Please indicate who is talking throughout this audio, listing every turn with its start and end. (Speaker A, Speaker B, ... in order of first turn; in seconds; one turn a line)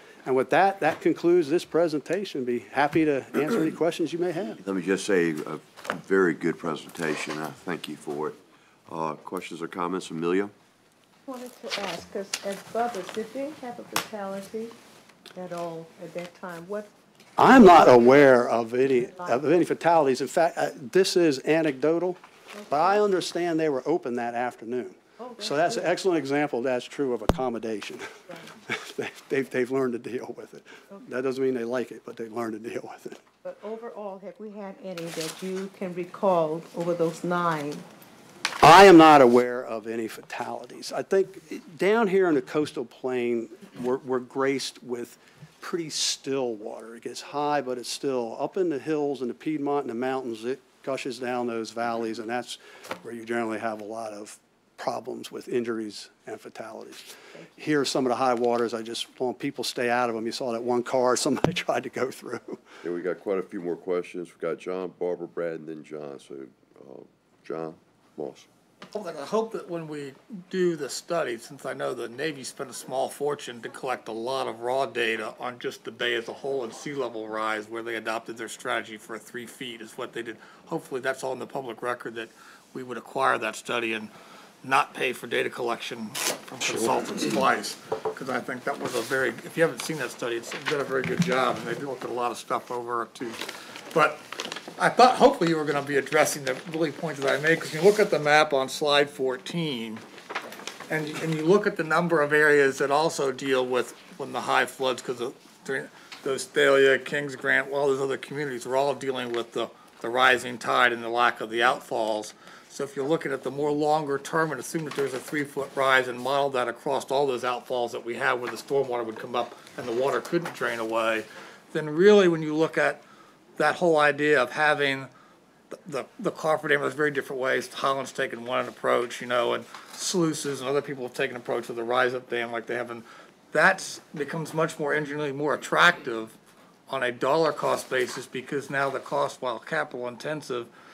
Speaker A: 0.2-4.6
Speaker B: 4.6-8.4
Speaker B: 8.9-10.5
Speaker C: 11.3-14.7
Speaker C: 15.3-16.9
Speaker A: 17.4-28.1
Speaker C: 25.2-25.8
Speaker A: 28.6-33.2
Speaker C: 33.4-37.9
Speaker A: 38.6-62.6
Speaker B: 62.8-68.5
Speaker D: 68.9-84.1
Speaker D: 84.6-93.4
Speaker D: 93.9-100.0
Speaker D: 100.9-123.0
Speaker D: 123.6-125.1
Speaker D: 125.7-136.3
Speaker D: 136.9-140.7